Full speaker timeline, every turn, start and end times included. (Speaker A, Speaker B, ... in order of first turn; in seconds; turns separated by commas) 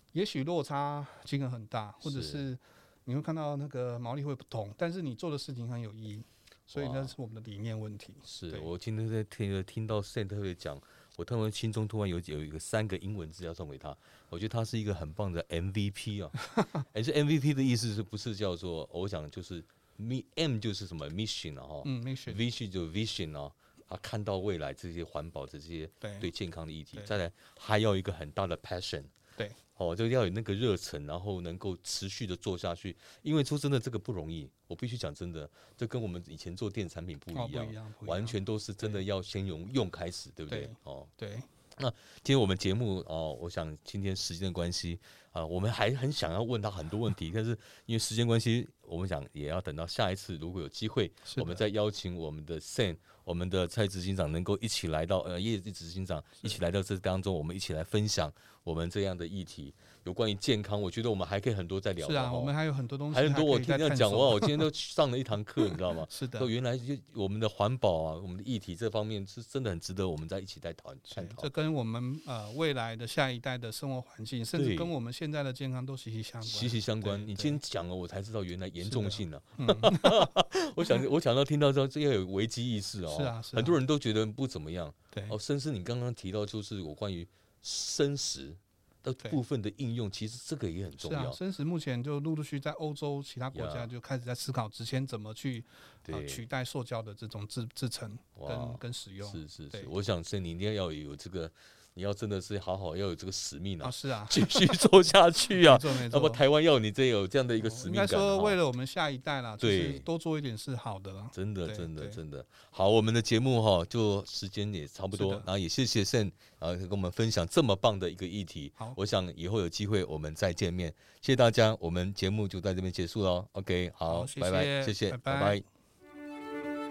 Speaker A: 0.1-8.7, Speaker B: 2.0-2.4, Speaker B: 6.8-7.2, Speaker B: 8.2-29.1, Speaker A: 21.8-22.4, Speaker A: 26.0-26.3, Speaker B: 29.8-41.1, Speaker A: 37.3-39.0, Speaker A: 40.5-41.5, Speaker B: 41.8-62.6, Speaker A: 51.2-51.6, Speaker A: 62.0-64.7, Speaker B: 63.1-71.5, Speaker A: 65.7-66.5, Speaker A: 71.1-77.6, Speaker B: 74.5-74.9, Speaker B: 76.4-91.4, Speaker A: 78.8-81.0, Speaker A: 83.1-83.8, Speaker A: 91.0-99.9, Speaker B: 93.5-93.9, Speaker B: 96.1-96.5, Speaker B: 98.4-108.6, Speaker A: 103.8-104.9, Speaker A: 105.4-106.4, Speaker A: 107.6-112.2, Speaker B: 109.6-110.1, Speaker B: 111.3-125.7, Speaker A: 115.1-115.5, Speaker A: 124.1-125.6